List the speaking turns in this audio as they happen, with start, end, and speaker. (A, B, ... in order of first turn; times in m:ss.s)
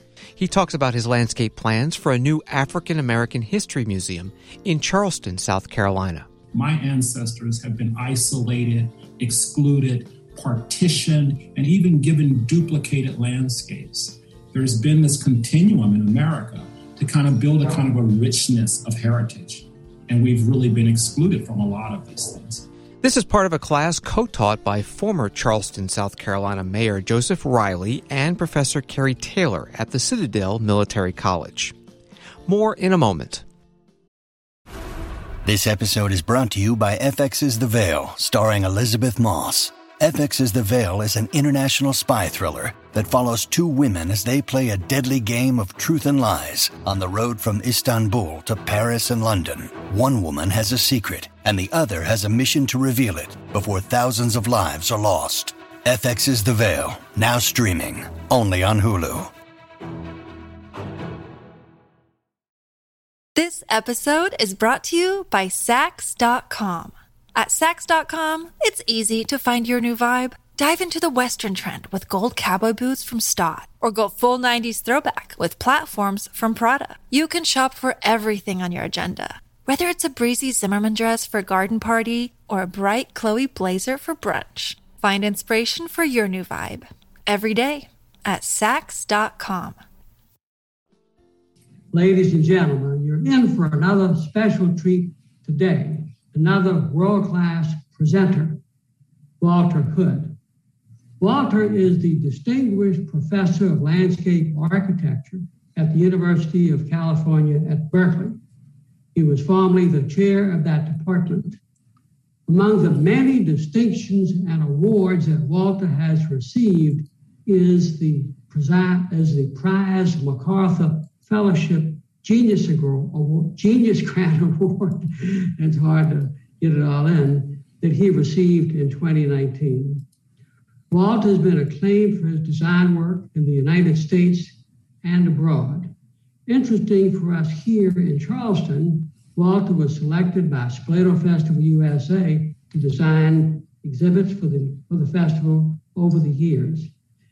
0:00.4-0:06.2 A
0:06.5-0:22.7 B
0:23.0-0:31.7 A
0:32.4-0:33.4 A
0:35.4-0:59.3 C
1:03.4-1:29.8 D
1:31.9-1:38.6 E
1:39.4-1:40.4 E
1:41.2-1:48.4 E
1:49.1-1:51.6 E
1:52.5-2:10.0 E
2:10.9-2:15.9 E
2:16.4-2:26.9 E